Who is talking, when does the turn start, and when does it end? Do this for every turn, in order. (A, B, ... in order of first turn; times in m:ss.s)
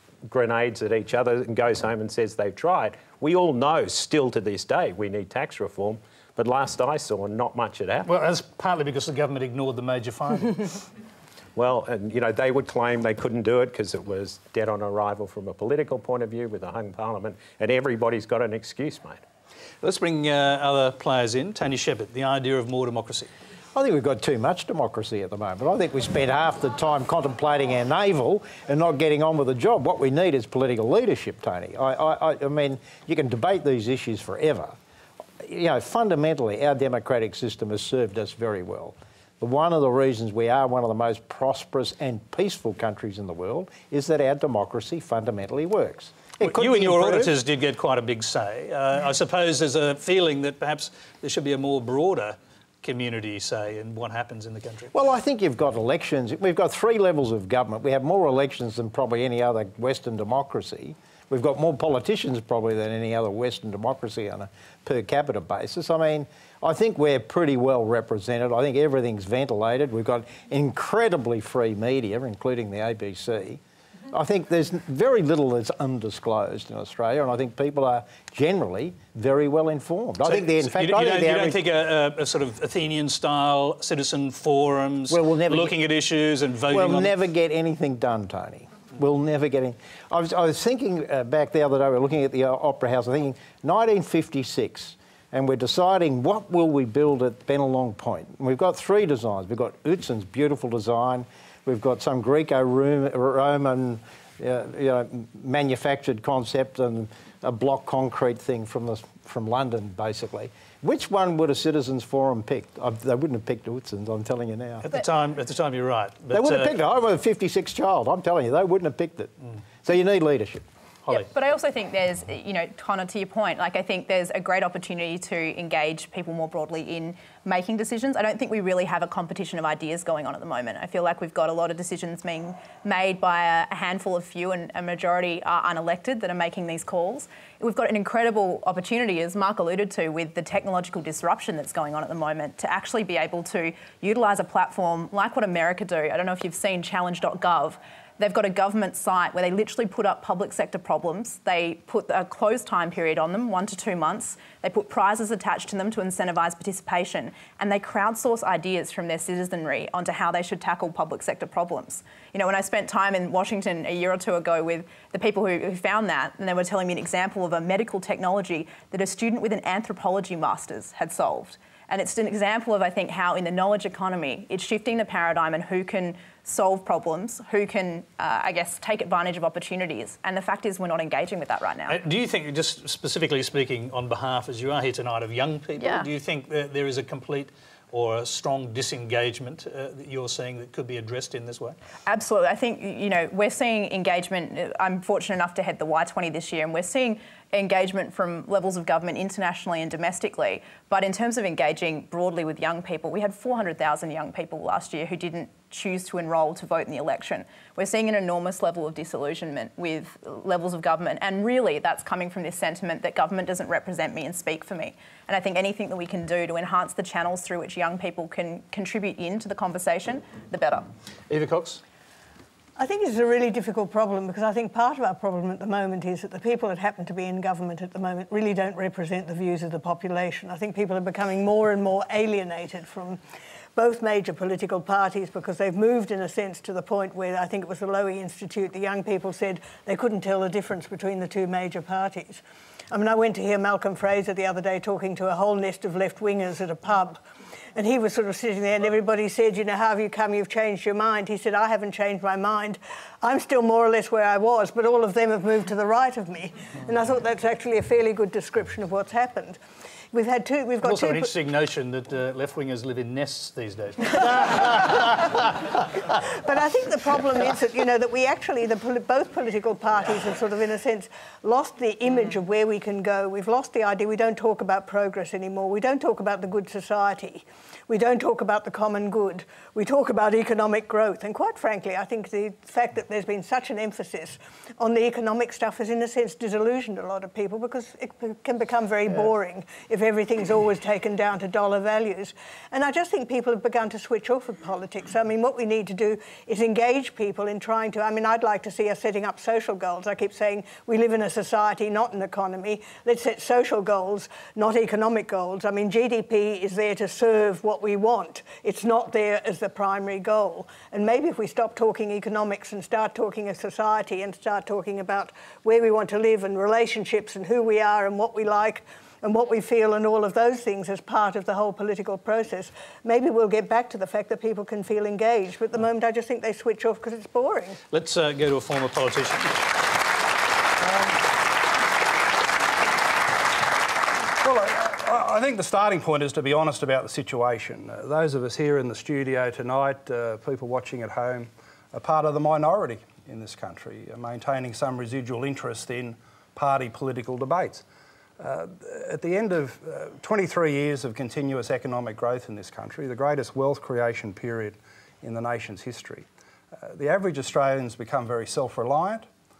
0:00.3-0:08.1 A
0:08.0-0:10.8 B
0:11.6-0:19.2 A
0:19.8-0:23.3 B
0:23.7-0:34.8 C
0:35.4-0:47.3 C
0:46.4-0:54.9 B
0:54.9-1:13.6 C
1:14.1-1:21.6 C
1:20.2-1:27.1 B
1:25.1-1:25.8 C
1:26.7-1:54.9 C
1:54.8-1:56.8 B
1:56.3-2:00.6 C
2:01.1-3:02.0 D
3:01.9-3:11.8 B
3:05.8-3:06.0 D
3:12.0-3:40.9 D
3:41.3-3:41.8 B
3:42.8-3:53.2 E
3:53.8-4:07.2 E
4:07.8-4:19.6 E
4:20.1-4:21.3 E
4:20.8-4:25.3 B
4:26.4-5:27.8 E
5:27.9-5:29.7 B
5:34.4-5:47.8 F
5:48.4-5:56.2 F
5:56.8-5:59.3 F